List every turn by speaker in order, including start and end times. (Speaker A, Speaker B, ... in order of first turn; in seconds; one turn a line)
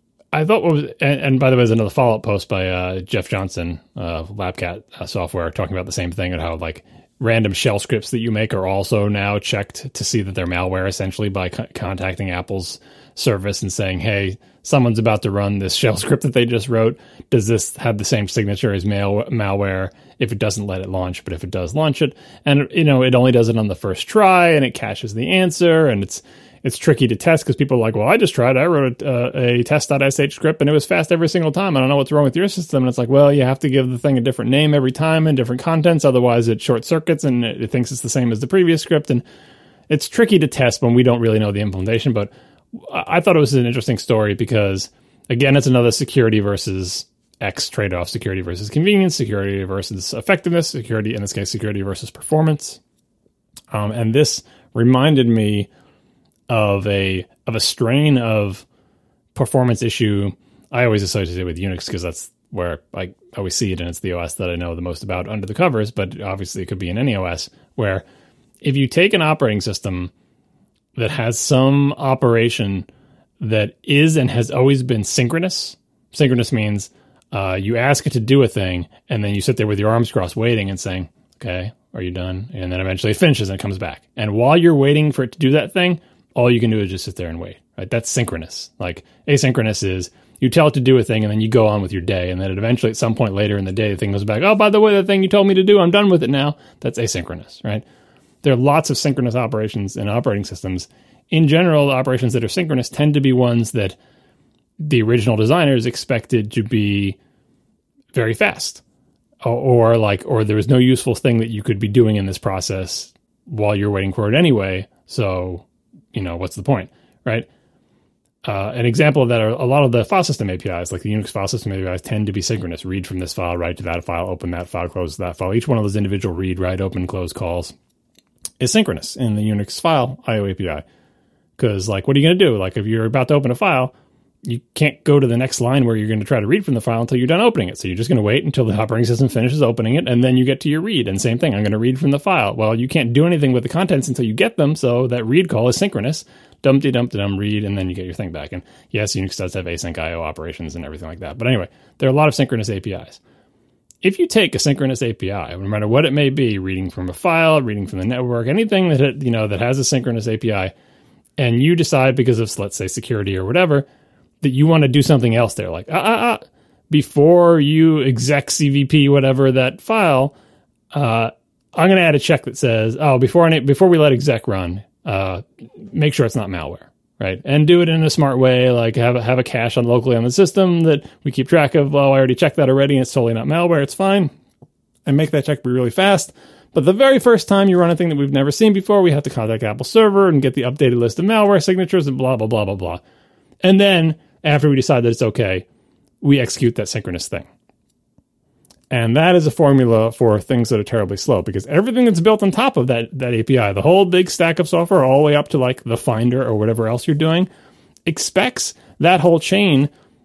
Speaker A: 0.3-39.2
Speaker A: 39.9-52.8
Speaker A: 53.7-55.7
Speaker A: 56.5-58.6
Speaker A: 59.4-68.0
Speaker A: 68.6-70.1
Speaker A: 71.0-72.9
Speaker A: 73.4-97.8
Speaker A: 98.4-104.0
Speaker A: 104.8-107.2
Speaker A: 108.1-108.8
Speaker A: 109.4-117.5
Speaker A: 118.5-127.8
Speaker A: 128.6-130.8
Speaker A: 131.6-133.9
Speaker A: 134.4-153.2
Speaker A: 154.0-160.7
Speaker A: 161.4-163.9
Speaker A: 164.4-170.3
Speaker A: 170.9-184.3
Speaker A: 185.1-193.0
Speaker A: 193.6-195.6
Speaker A: 196.2-197.5
Speaker A: 198.9-207.5
Speaker A: 208.1-209.9